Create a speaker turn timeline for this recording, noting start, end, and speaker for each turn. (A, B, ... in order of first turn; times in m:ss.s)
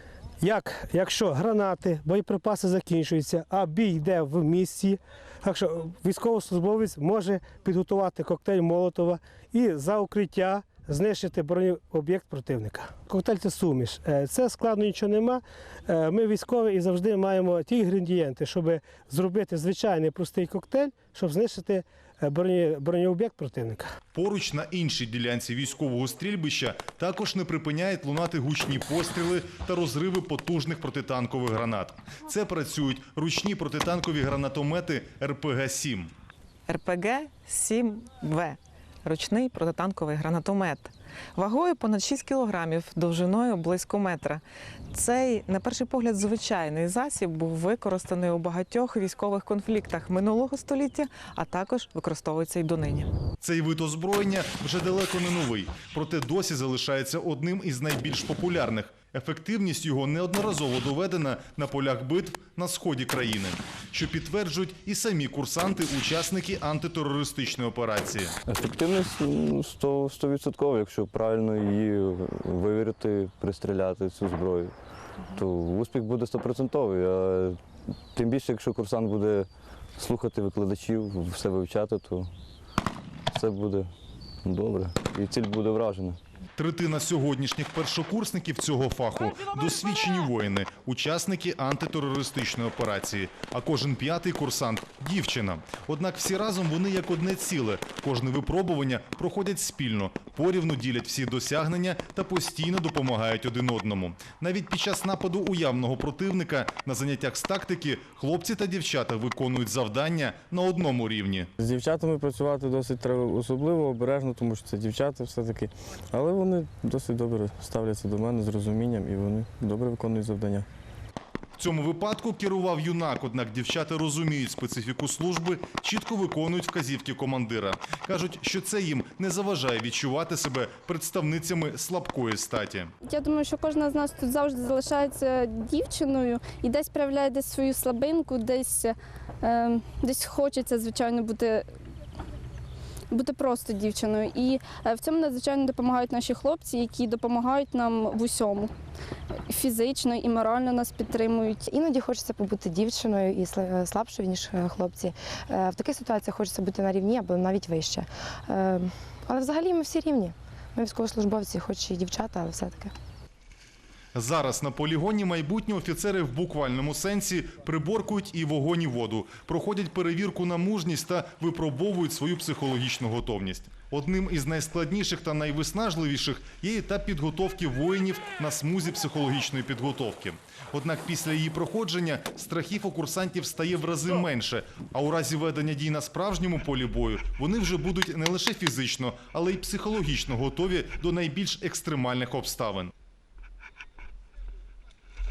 0:00.4-0:23.9 A
0:24.1-0:36.1 B
0:36.7-0:53.1 C
0:53.4-1:08.4 B
1:08.4-1:14.7 D
1:15.3-1:17.6 D
1:18.1-1:22.3 D
1:23.3-1:23.9 D
1:24.4-1:26.2 D
1:26.6-1:51.5 B
1:51.6-2:00.7 E
2:01.6-2:12.9 B
2:13.0-2:21.7 F
2:23.1-2:28.7 F
2:29.5-2:31.6 F
2:31.7-2:42.9 G
2:44.1-3:12.9 B